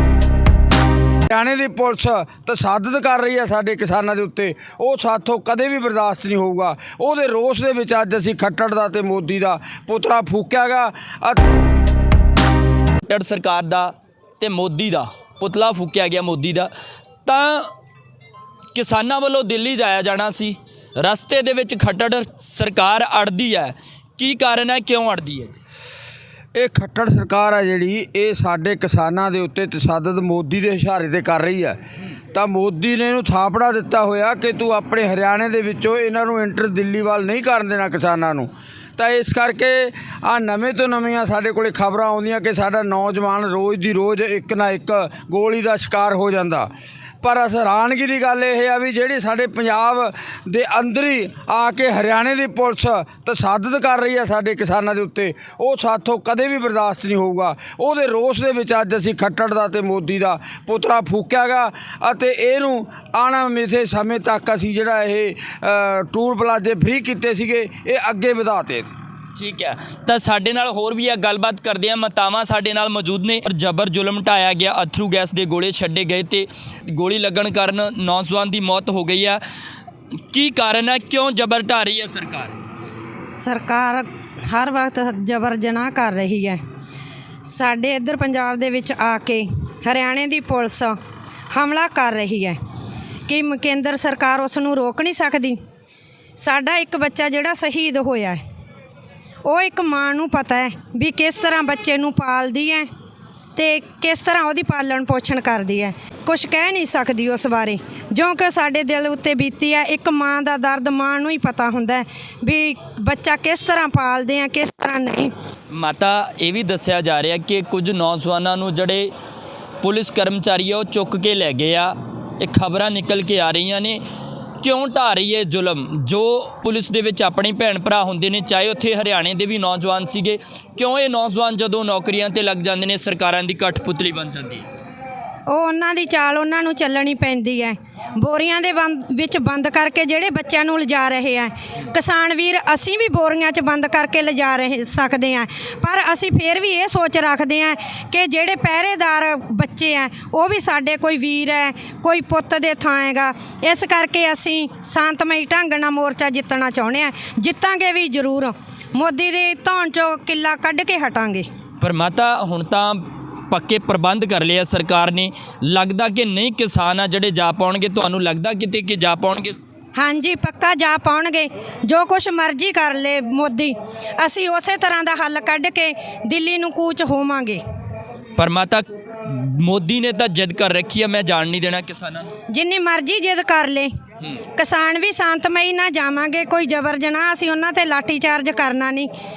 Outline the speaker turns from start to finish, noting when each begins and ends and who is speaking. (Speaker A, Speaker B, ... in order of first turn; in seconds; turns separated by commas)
Speaker A: 1.3-11.4, Speaker B: 13.0-16.7, Speaker B: 17.2-17.7, Speaker B: 18.7-25.6, Speaker A: 26.5-31.8, Speaker A: 32.3-46.7, Speaker A: 47.2-68.9, Speaker B: 69.3-79.4, Speaker B: 80.3-82.5, Speaker C: 83.4-86.6, Speaker C: 87.5-91.0, Speaker C: 91.5-92.6, Speaker C: 93.2-95.6, Speaker C: 96.4-98.4, Speaker C: 99.4-102.9, Speaker C: 103.5-115.3, Speaker B: 115.7-119.1, Speaker B: 119.8-124.0, Speaker B: 124.6-134.7, Speaker C: 135.5-161.5, Speaker B: 161.8-169.6, Speaker C: 169.9-177.6, Speaker B: 178.4-182.3, Speaker C: 182.5-183.9, Speaker C: 184.6-189.1